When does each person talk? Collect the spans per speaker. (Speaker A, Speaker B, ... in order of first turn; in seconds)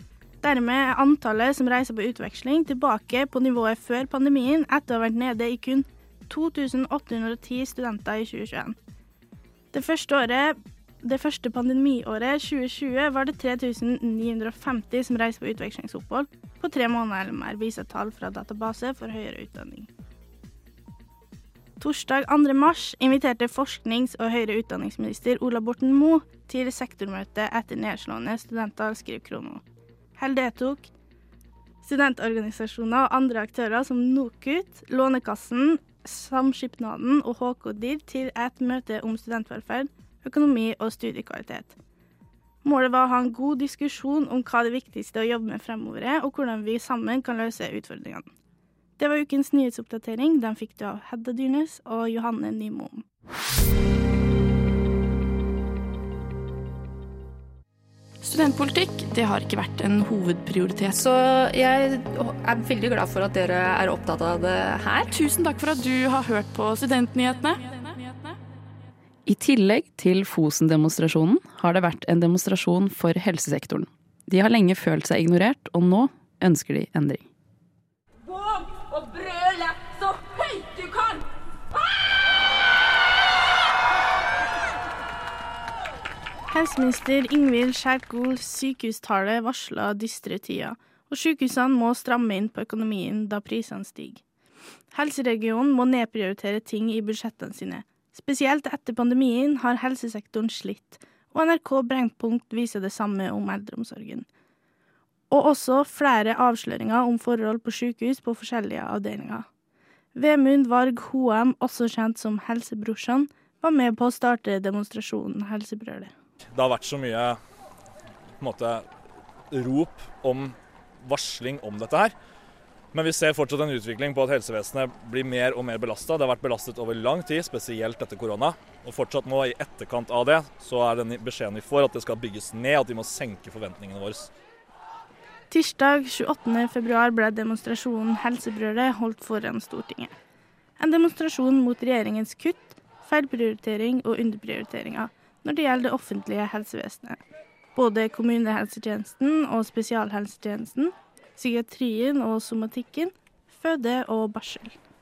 Speaker A: 0.4-8.8, 9.7-19.9, 21.8-29.6, 30.2-30.9, 31.8-41.7, 42.6-48.3, 49.0-53.0, 86.5-94.2, 94.9-104.3, 105.3-109.5, 110.2-116.1, 135.5-140.1, 140.8-147.2, 147.8-154.8
Speaker B: 58.2-61.0, 65.1-68.3
Speaker C: 60.9-65.1
Speaker D: 69.3-77.3
Speaker E: 116.5-117.4, 118.4-118.9, 119.5-122.2, 122.9-134.3